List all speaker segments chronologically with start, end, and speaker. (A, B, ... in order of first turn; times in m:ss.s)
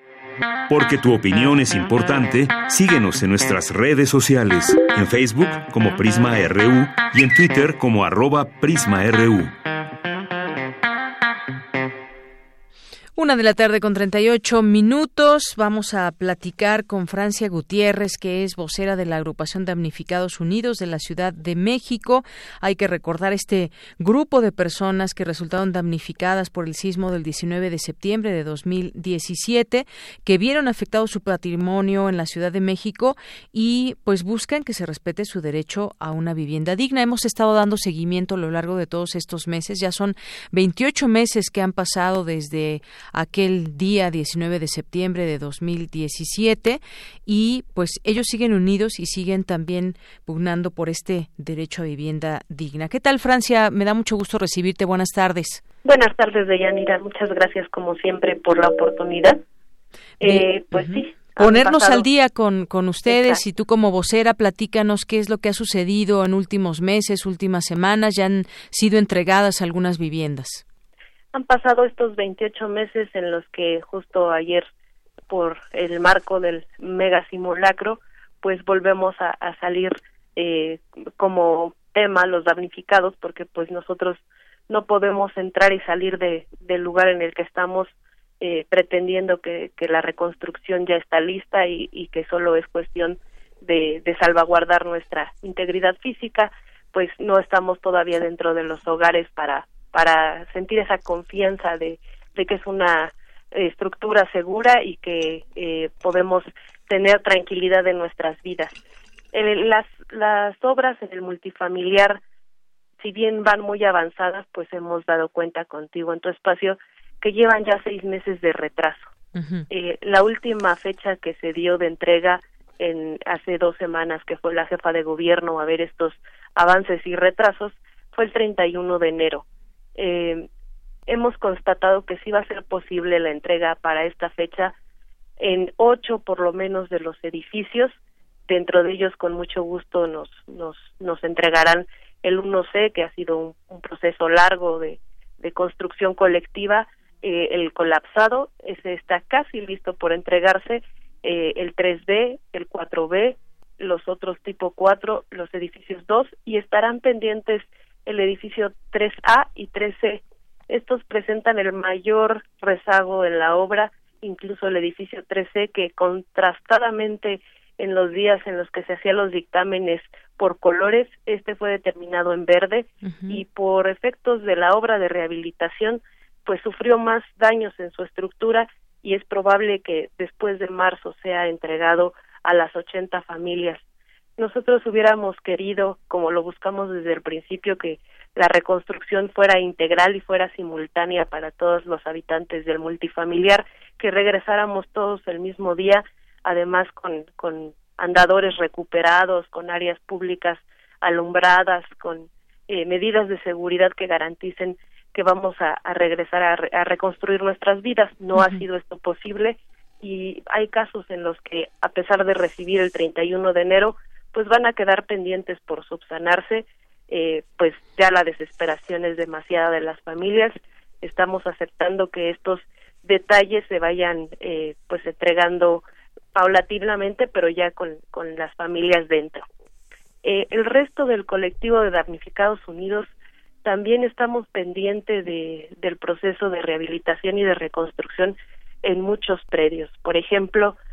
0:00.7-0:09.6 A
0:13.2-0:55.6 B
0:55.8-0:59.4 C
1:00.2-1:02.0 C
1:00.2-1:10.6 B
1:03.1-1:03.4 C
1:11.3-1:14.7 C
1:15.3-1:48.7 C
1:49.3-1:52.2 C
1:53.0-1:59.1 C
1:59.4-1:59.7 B
1:59.7-2:09.4 C
2:10.0-2:10.5 C
2:11.1-2:14.7 C
2:15.4-2:18.0 C
2:18.5-3:03.8 C
2:53.0-2:53.4 B
3:04.4-3:45.8 C
3:28.4-3:28.6 B
3:46.4-3:49.4 C
3:50.2-3:53.1 C
3:53.6-4:00.8 C